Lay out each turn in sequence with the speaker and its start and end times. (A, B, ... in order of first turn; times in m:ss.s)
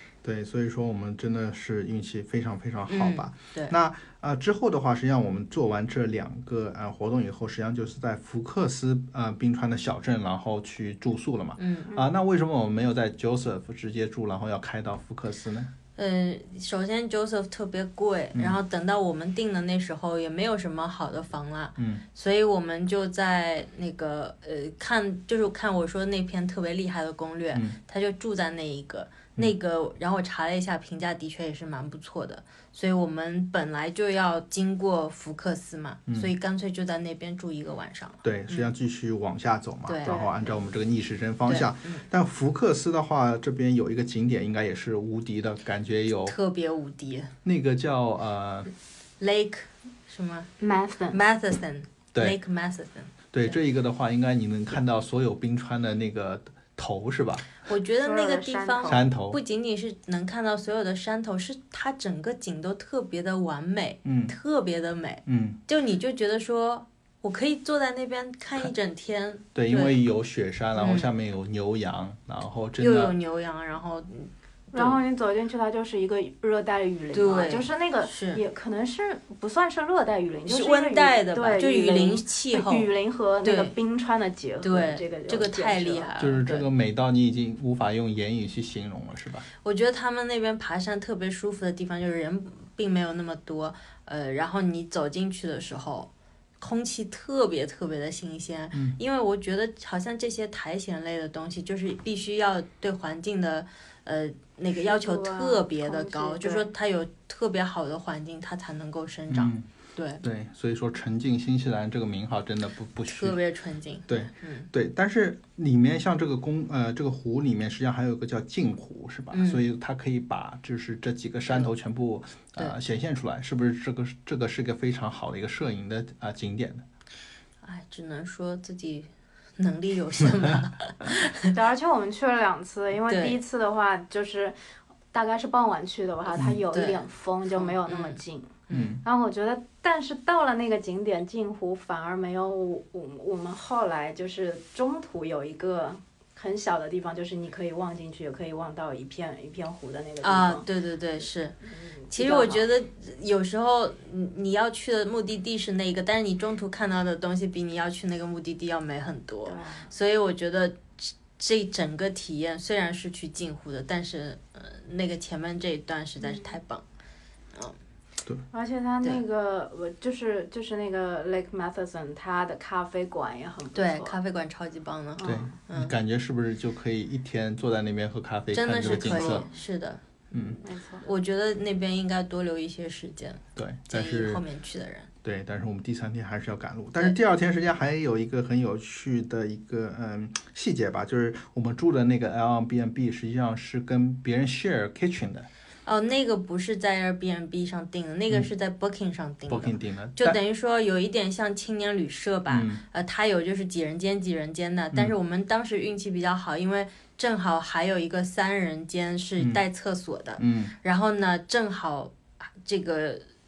0:00.2-0:15.7 A
0:02.9-0:03.7 B
0:11.6-0:11.9 B
0:16.0-0:38.7 B
0:21.8-0:22.0 A
0:36.1-0:36.3 A
0:38.2-0:46.4 A
0:39.8-0:40.6 B
0:40.0-0:40.3 C
0:41.4-0:42.1 B
0:46.2-0:47.3 B
0:47.4-0:48.7 A
0:49.2-0:50.5 B
0:50.6-0:51.2 C
0:51.1-0:53.6 B
0:53.3-0:57.5 A
0:57.6-1:10.0 B
0:58.0-0:59.0 C
0:58.9-0:59.4 A
1:04.0-1:04.3 A
1:05.2-1:05.6 A
1:09.5-1:13.1 A
1:10.8-1:11.1 B
1:12.8-1:15.0 B
1:14.7-1:26.1 C
1:17.1-1:18.4 B
1:20.5-1:22.9 B
1:23.4-1:23.7 B
1:24.6-1:26.6 B
1:26.2-1:29.5 A
1:29.6-1:50.2 B
1:38.7-1:39.0 A
1:44.8-1:46.7 C
1:49.3-1:49.6 A
1:50.2-1:53.4 A
1:53.0-1:54.7 B
1:54.1-2:06.8 A
1:59.3-1:59.6 B
2:07.6-2:11.5 B
2:11.5-2:14.6 C
2:13.1-2:13.4 B
2:15.1-2:30.6 C
2:16.7-2:17.0 B
2:17.6-2:18.2 B
2:18.7-2:19.0 B
2:18.7-2:19.0 A
2:30.2-2:31.5 B
2:31.6-2:32.7 C
2:32.1-2:46.8 B
2:39.4-2:39.9 C
2:46.2-2:46.6 C
2:48.5-2:54.2 C
2:53.7-2:55.9 B
2:55.2-2:55.5 C
2:55.2-2:59.4 A
2:58.5-3:00.0 B
2:58.8-2:59.5 C
3:00.3-3:00.6 A
3:00.6-3:01.0 C
3:01.0-3:05.1 B
3:03.6-3:04.4 A
3:05.2-3:15.5 A
3:15.8-3:33.2 B
3:19.5-3:20.4 A
3:22.5-3:22.8 A
3:30.4-3:30.7 A